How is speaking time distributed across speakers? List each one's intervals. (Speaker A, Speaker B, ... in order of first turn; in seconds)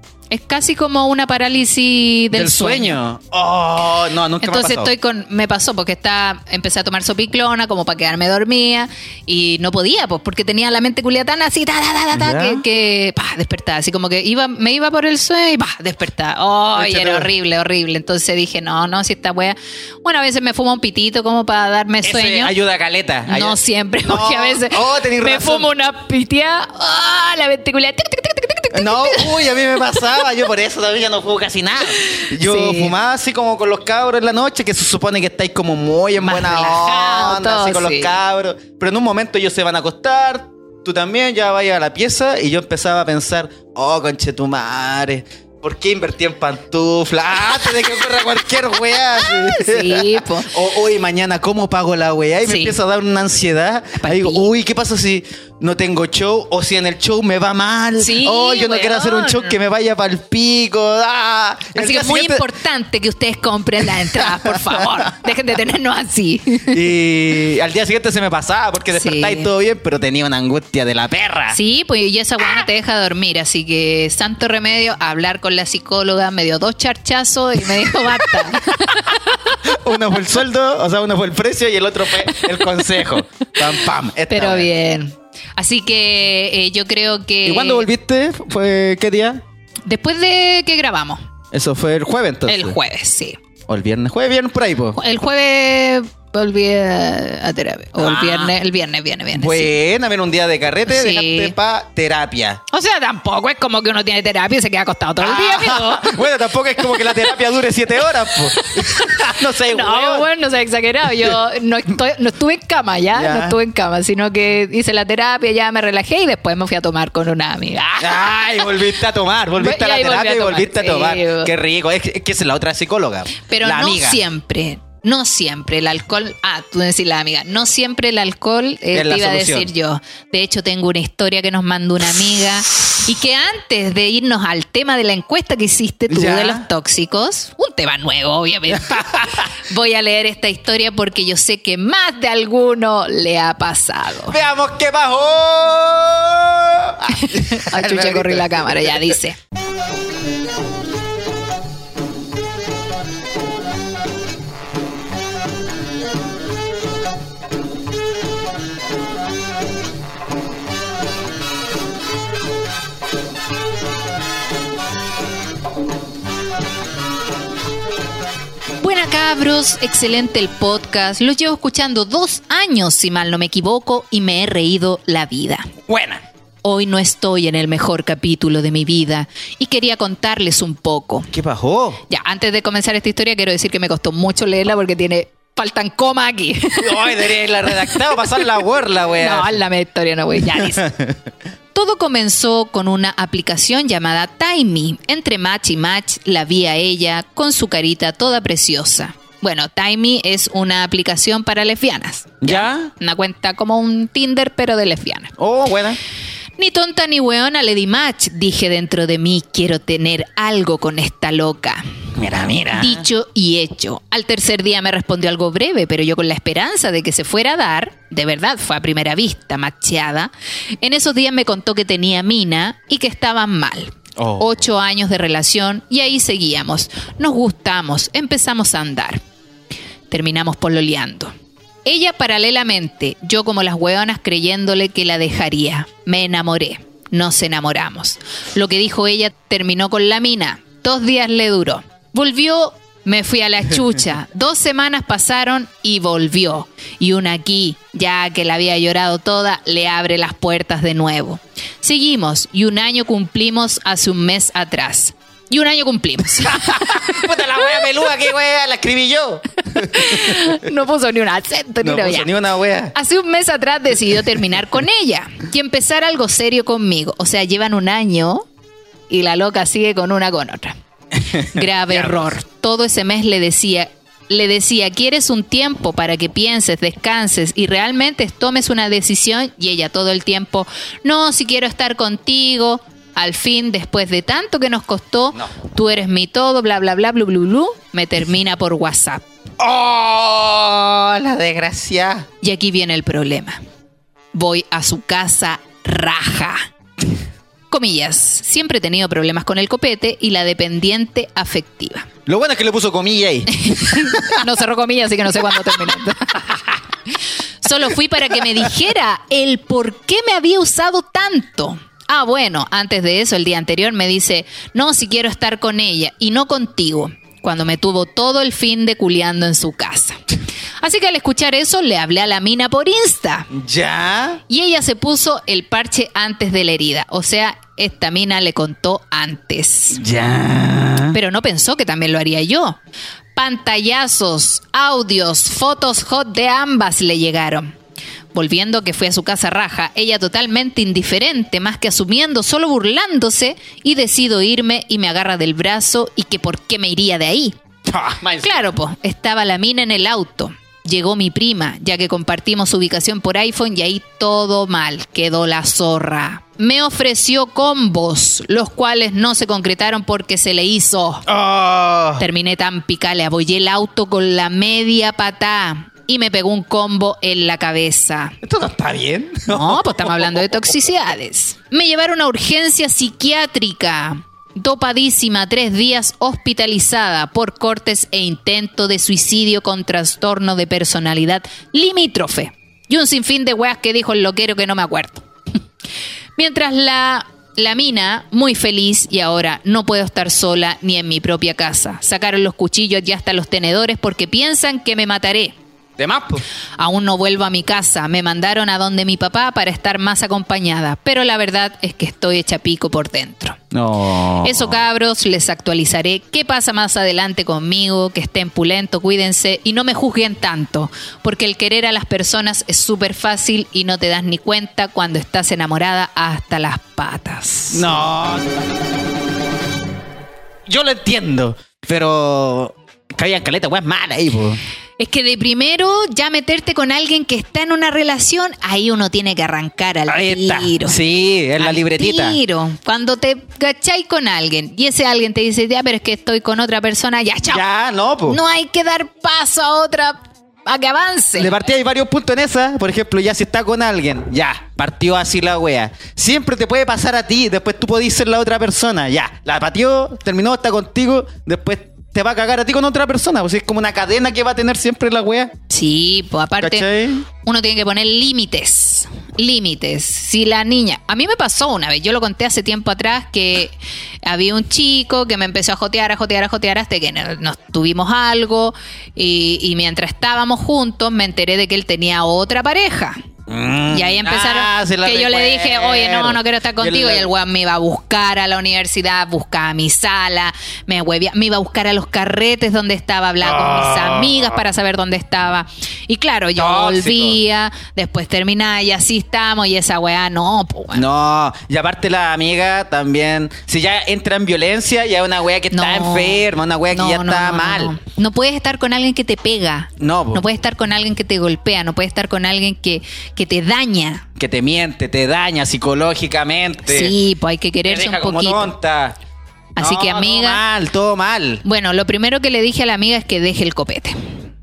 Speaker A: 0.3-3.0, 4.4-22.5, 23.3-30.5, 32.0-32.9, 36.2-38.1, 49.2-50.5, 52.5-52.8, 54.0-54.5, 58.0-59.6, 61.8-66.8, 68.9-69.5, 71.5-79.6, 84.3-87.9, 89.8-91.2, 92.5-93.4, 95.0-99.7, 100.9-101.5, 102.7-106.2, 106.9-107.3, 108.5-118.7, 119.6-121.5, 123.5-144.4, 147.1-149.4, 168.8-175.7, 176.6-181.3, 182.1-188.6, 189.2-190.9, 191.8-205.3, 206.6-211.8, 212.7-220.3, 220.8-229.2, 230.1-231.3, 231.8-258.1, 259.8-262.3, 262.9-268.5, 269.1-270.8, 271.5-289.2, 292.4-293.6, 294.3-296.7, 297.7-302.1, 303.6-306.8, 307.6-320.2, 320.8-323.5, 324.5-330.0, 331.1-332.8, 333.4-337.7, 338.3-347.6, 348.4-361.2, 362.2-368.4, 369.5-385.2, 386.4-395.6, 396.8-403.6, 404.4-417.9, 425.0-431.0, 431.6-437.6, 438.3-441.5, 455.7-473.2, 473.9-491.0, 495.7-504.2, 506.9-508.7, 509.8-510.6, 511.6-514.2
Speaker B: 2.3-4.9, 12.1-12.6, 16.8-17.3, 22.0-25.7, 28.7-62.4, 64.1-65.1, 66.7-71.6, 78.7-79.0, 79.6-84.7, 87.5-89.4, 91.5-92.8, 93.7-95.0, 98.0-98.5, 99.3-102.6, 105.2-110.3, 113.2-113.6, 118.0-124.2, 128.9-129.7, 136.1-136.7, 138.7-139.5, 144.3-149.0, 175.9-176.2, 181.3-182.0, 186.8-189.6, 190.6-191.2, 202.4-202.9, 205.4-206.0, 212.2-213.0, 224.2-224.5, 256.4-260.6, 261.8-262.9, 271.2-272.2, 289.6-292.3, 302.3-304.4, 323.5-324.4, 330.0-331.2, 347.9-348.6, 361.3-362.2, 368.4-370.7, 396.0-396.4, 403.7-404.8, 417.7-418.5, 420.7-424.6, 430.1-432.4, 437.5-438.4, 441.4-455.5, 456.6-457.3, 473.5-477.3, 483.4-484.6, 486.6-487.4, 490.9-498.0, 500.0-500.4, 504.4-507.1, 507.9-509.2, 509.8-511.6